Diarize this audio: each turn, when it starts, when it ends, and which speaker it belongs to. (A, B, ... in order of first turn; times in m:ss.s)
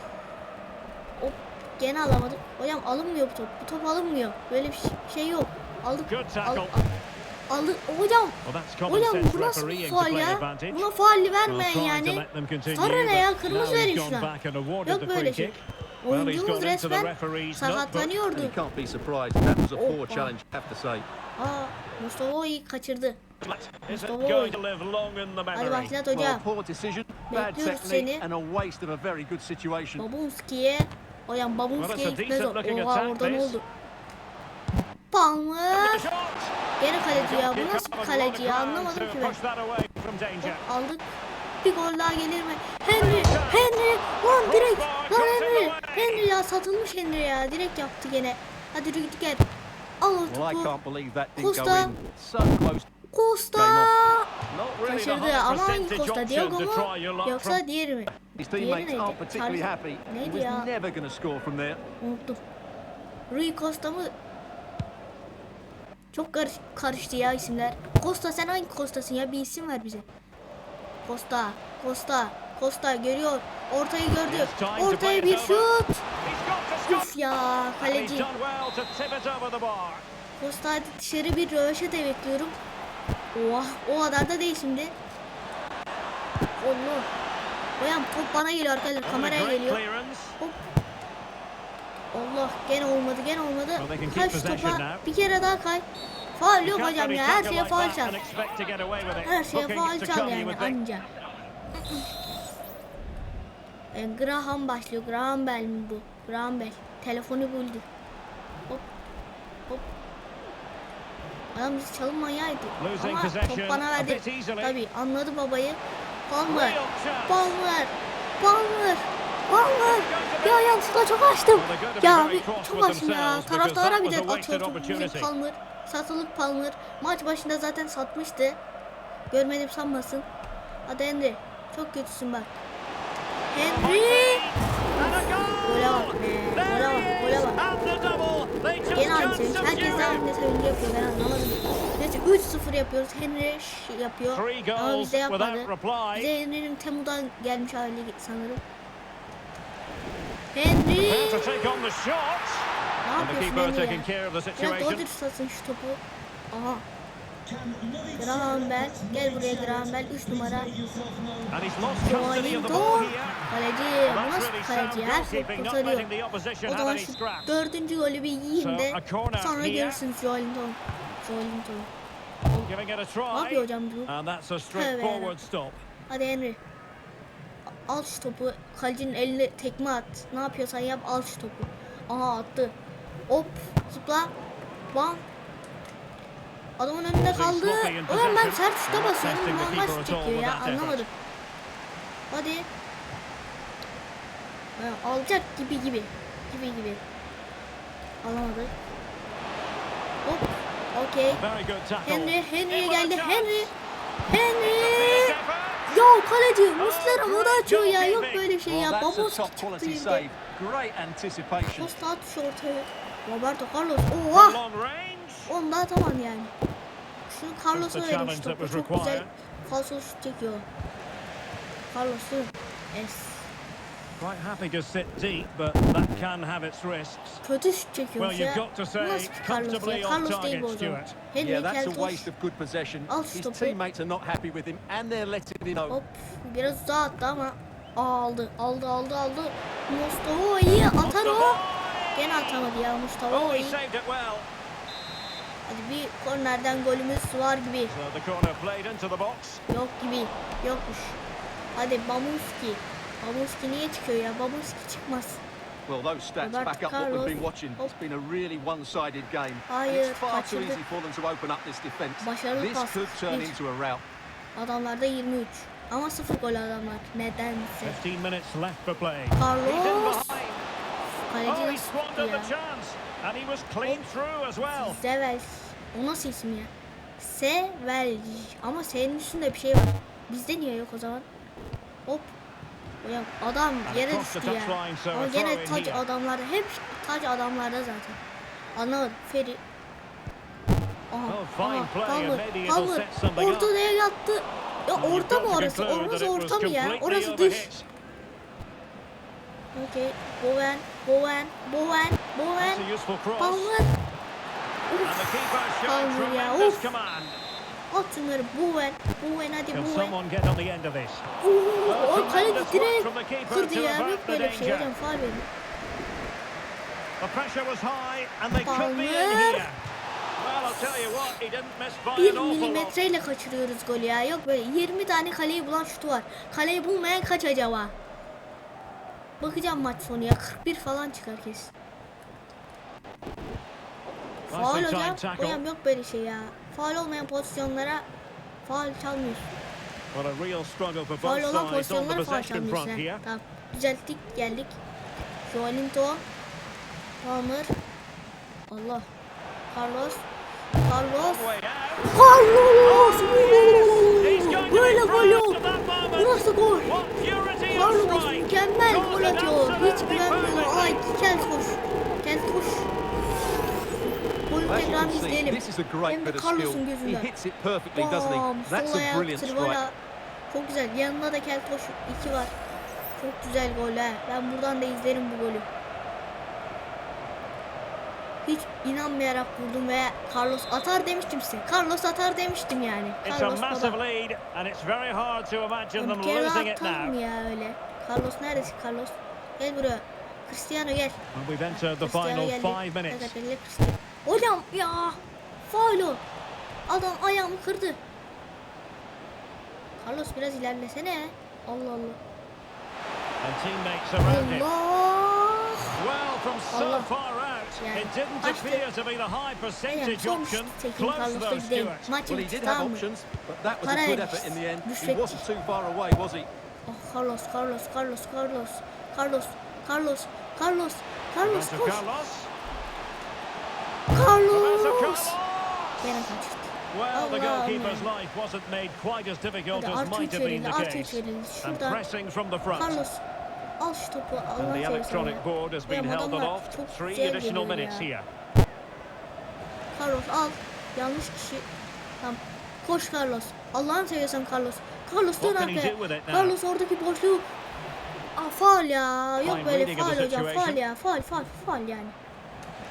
0:01.2-0:06.9 A
0:06.0-0:06.8 B
0:07.5-0:14.3 A
0:08.4-0:10.9 B
0:11.5-0:18.2 B
0:14.8-0:18.6 A
0:18.3-0:21.0 C
0:19.8-0:20.3 A
0:21.4-0:23.2 A
0:23.4-0:26.0 B
0:23.9-0:24.6 A
0:25.5-0:26.4 A
0:26.1-0:30.0 C
0:27.3-0:28.2 A
0:30.0-0:33.6 A
0:31.8-0:33.6 B
0:35.1-0:36.1 A
0:35.7-0:36.5 B
0:36.8-0:39.4 A
0:37.1-0:40.6 B
0:40.4-0:49.5 A
0:43.0-0:43.7 B
0:44.4-0:46.3 B
0:50.0-0:50.7 A
0:50.3-0:52.8 C
0:51.4-0:52.0 A
0:53.1-0:54.3 A
0:53.5-0:53.9 C
0:54.5-0:57.6 B
0:54.8-1:00.7 A
0:58.3-1:01.8 C
1:02.0-1:02.4 A
1:03.3-1:04.1 A
1:06.1-1:10.0 A
1:11.0-1:16.0 A
1:14.2-1:17.2 B
1:16.8-1:18.4 A
1:17.8-1:20.0 B
1:20.4-1:22.6 A
1:23.3-1:25.0 A
1:26.6-1:27.1 A
1:27.8-1:29.8 A
1:29.0-1:30.4 B
1:30.4-1:30.7 A
1:32.1-1:35.8 A
1:33.8-1:35.0 B
1:36.4-1:38.2 A
1:36.6-1:40.8 B
1:39.2-1:41.1 A
1:43.9-1:47.8 A
1:51.5-2:08.6 A
1:52.8-1:54.8 B
1:56.5-1:57.6 B
1:59.8-2:00.8 B
2:01.5-2:05.3 B
2:09.3-2:10.2 A
2:10.8-2:12.6 A
2:13.5-2:17.6 A
2:13.6-2:20.2 B
2:18.9-2:28.6 A
2:24.3-2:26.3 B
2:30.5-2:31.8 A
2:31.0-2:35.0 B
2:33.0-2:36.8 A
2:38.2-2:40.8 A
2:41.5-2:43.5 B
2:42.0-2:46.1 A
2:44.0-2:47.6 B
2:46.7-2:51.9 A
2:48.5-2:50.0 B
2:52.6-2:55.8 B
2:53.3-2:54.1 A
2:54.7-2:55.4 A
2:56.1-2:56.6 A
2:57.8-3:02.8 A
3:03.3-3:04.3 A
3:04.9-3:05.2 A
3:06.8-3:11.1 A
3:07.2-3:11.0 B
3:12.3-3:12.7 A
3:14.8-3:17.0 A
3:18.2-3:18.7 A
3:20.2-3:21.4 A
3:21.3-3:23.7 B
3:22.0-3:23.7 A
3:24.3-3:25.4 A
3:24.6-3:26.1 B
3:25.9-3:30.2 A
3:26.8-3:28.5 B
3:28.6-3:31.9 C
3:31.7-3:34.6 A
3:34.3-3:35.5 B
3:35.5-3:36.5 A
3:37.3-3:40.6 A
3:37.7-3:39.3 B
3:41.9-3:43.5 A
3:44.2-3:47.4 B
3:47.4-3:52.3 A
3:48.2-3:51.2 B
3:51.4-3:56.0 C
3:53.1-3:53.8 A
3:55.9-4:01.6 A
4:01.0-4:02.7 B
4:02.2-4:03.8 A
4:03.3-4:04.5 B
4:05.7-4:07.9 A
4:07.9-4:09.6 B
4:09.7-4:11.2 A
4:11.8-4:15.4 A
4:15.9-4:24.0 C
4:16.4-4:17.9 A
4:19.7-4:20.8 A
4:22.2-4:23.6 A
4:24.6-4:28.0 A
4:27.8-4:30.6 B
4:29.3-4:30.4 A
4:31.3-4:32.5 A
4:31.4-4:35.0 B
4:34.7-4:41.2 A
4:42.0-4:42.3 A
4:43.0-4:48.2 A
4:43.8-4:46.0 B
4:48.7-4:49.6 A
4:51.1-4:57.7 A
4:51.3-4:53.7 B
4:55.0-4:57.8 B
4:59.7-5:02.8 A
5:02.6-5:03.7 B
5:03.4-5:04.0 A
5:04.9-5:06.9 A
5:05.0-5:07.4 B
5:07.9-5:10.2 A
5:09.7-5:11.3 B
5:11.4-5:15.5 A
5:11.8-5:14.9 B
5:17.2-5:19.8 B
5:18.6-5:19.7 A
5:20.4-5:23.0 B
5:22.2-5:27.9 A
5:29.4-5:31.7 A
5:34.5-5:38.1 A
5:34.5-5:35.6 B
5:38.6-5:39.5 A
5:40.1-5:43.2 B
5:41.2-5:44.8 A
5:45.5-5:46.2 A
5:47.2-5:47.7 A
5:48.7-5:49.1 A
5:49.7-5:50.2 A
5:50.8-5:55.6 A
5:51.2-5:52.3 B
5:52.8-6:01.0 B
5:56.2-5:57.0 A
5:57.7-6:02.9 A
6:04.5-6:07.3 A
6:04.6-6:09.8 C
6:07.9-6:10.0 A
6:10.5-6:12.5 A
6:13.2-6:15.7 A
6:18.4-6:24.0 A
6:23.2-6:27.2 B
6:26.0-6:31.2 A
6:31.3-6:33.3 B
6:31.7-6:36.2 A
6:36.9-6:38.0 A
6:40.0-6:42.2 A
6:43.4-6:44.7 B
6:44.2-6:46.0 A
6:46.0-6:52.1 B
6:46.7-6:47.1 A
6:47.8-6:48.8 A
6:49.9-6:53.0 A
6:52.2-6:56.5 C
6:53.8-6:55.4 A
6:56.9-7:02.0 A
7:01.4-7:02.5 B
7:04.1-7:05.4 A
7:04.5-7:06.3 B
7:06.0-7:08.1 A
7:06.9-7:13.0 B
7:09.7-7:12.0 A
7:12.7-7:13.2 A
7:13.8-7:18.1 A
7:14.6-7:18.2 B
7:19.9-7:21.7 A
7:22.2-7:27.5 A
7:25.4-7:26.5 B
7:28.4-7:32.2 A
7:29.4-7:30.8 B